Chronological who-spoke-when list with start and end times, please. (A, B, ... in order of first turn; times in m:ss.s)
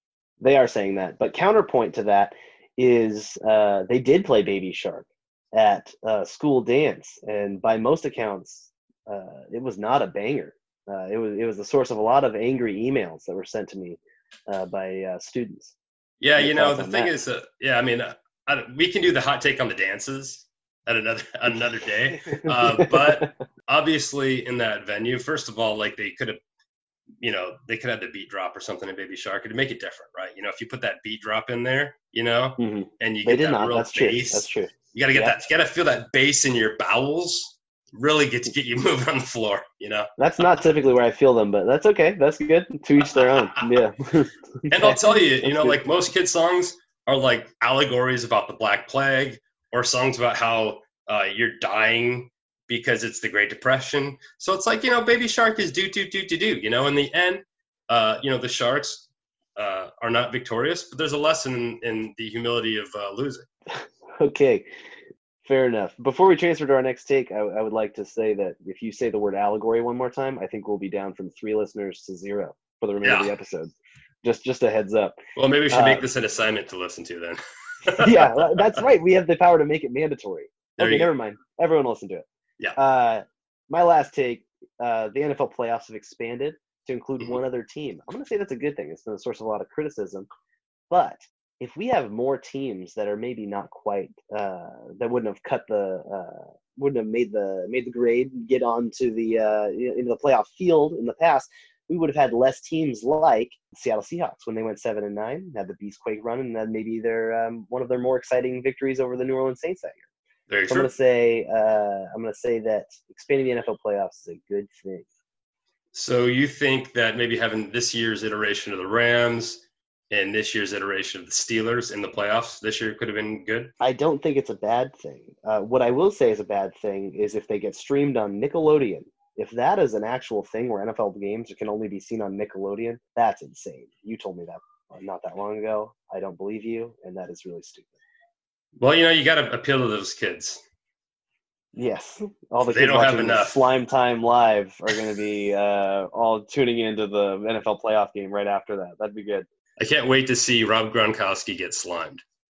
0:00.4-0:15.8 A
0:16.2-0:26.4 B
0:16.4-0:17.1 A
0:22.3-0:23.3 A
0:27.2-0:40.1 B
0:32.6-0:35.3 A
0:40.2-0:45.8 A
0:43.1-0:43.7 B
0:44.7-1:03.5 B
1:04.2-1:04.7 A
1:05.4-1:15.2 A
1:13.0-1:13.3 B
1:15.4-1:18.4 B
1:15.7-1:16.1 A
1:18.0-1:30.3 A
1:20.8-1:21.1 B
1:30.9-1:50.1 A
1:50.5-1:50.9 B
1:50.7-1:55.0 A
1:55.9-2:03.7 B
2:03.8-2:18.0 A
2:18.8-2:20.6 B
2:21.7-2:29.4 A
2:22.6-2:23.6 B
2:29.8-2:32.2 B